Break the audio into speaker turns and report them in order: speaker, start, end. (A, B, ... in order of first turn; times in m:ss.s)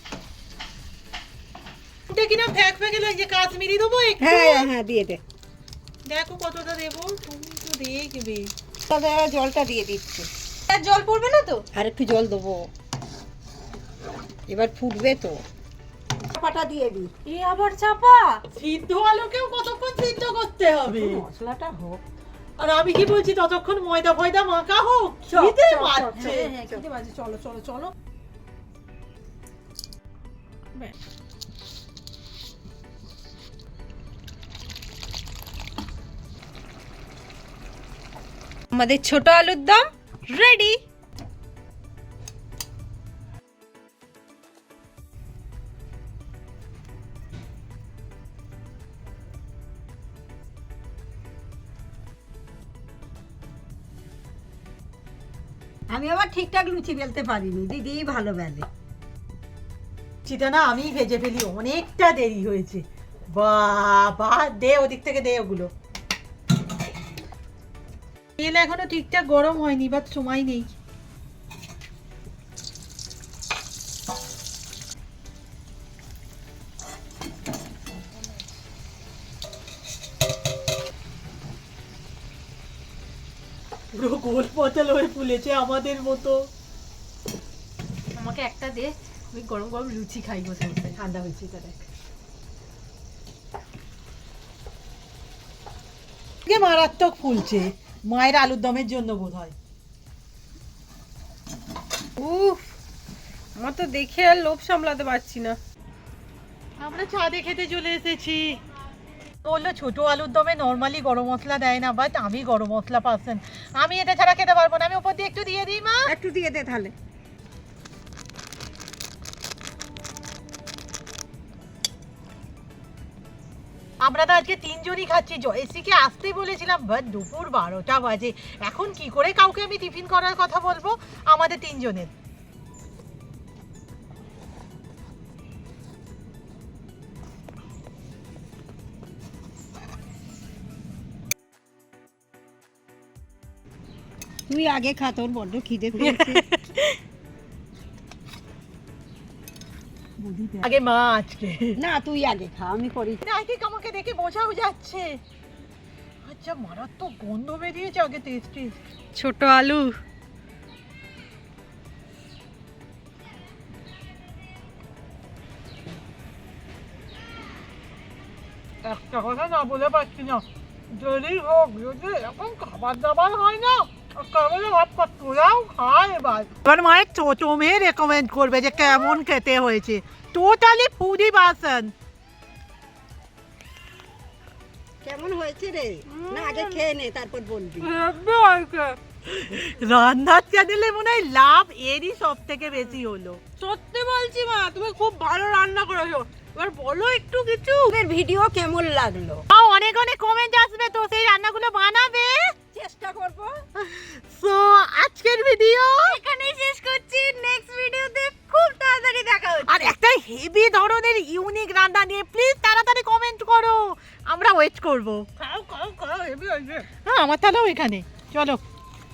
0:02.1-0:04.7 A
0:04.2-0:05.2 B
0:06.1-0:08.5 A
0:08.9-0:10.3 B
0:10.7-0:11.6 C
0:11.7-0:12.7 B
0:14.5-0:15.4 B
0:16.3-0:17.1 B
0:17.3-0:18.4 C
0:18.5-0:21.2 A
0:20.9-0:22.0 B
0:22.6-0:26.5 A
0:25.3-0:26.8 B
0:26.2-0:27.9 C
0:38.7-0:40.8 C
0:55.9-0:58.7 B
1:00.3-1:05.7 A
1:08.4-1:10.7 A
1:23.9-1:26.4 A
1:28.2-1:31.0 C
1:31.0-1:31.8 A
1:36.5-1:39.5 A
1:42.2-1:42.7 C
1:43.6-1:45.6 C
1:46.8-1:48.6 A
1:49.4-1:56.1 A
1:56.1-1:56.9 B
2:04.0-2:12.1 A
2:24.5-2:26.4 B
2:26.0-2:26.9 C
2:30.2-2:30.6 B
2:30.6-2:31.8 A
2:31.8-2:33.2 B
2:33.2-2:35.2 A
2:36.2-2:38.8 A
2:39.2-2:40.0 C
2:48.8-3:01.9 A
3:05.0-3:07.9 B
3:06.1-3:06.8 C
3:07.8-3:09.0 C
3:09.3-3:13.4 A
3:12.7-3:13.0 C
3:13.6-3:17.9 C
3:17.9-3:19.4 B
3:19.5-3:22.5 A
3:22.7-3:23.6 B
3:23.8-3:26.2 A
3:26.0-3:29.9 C
3:29.7-3:35.3 A
3:35.4-3:36.9 C
3:37.0-3:38.6 A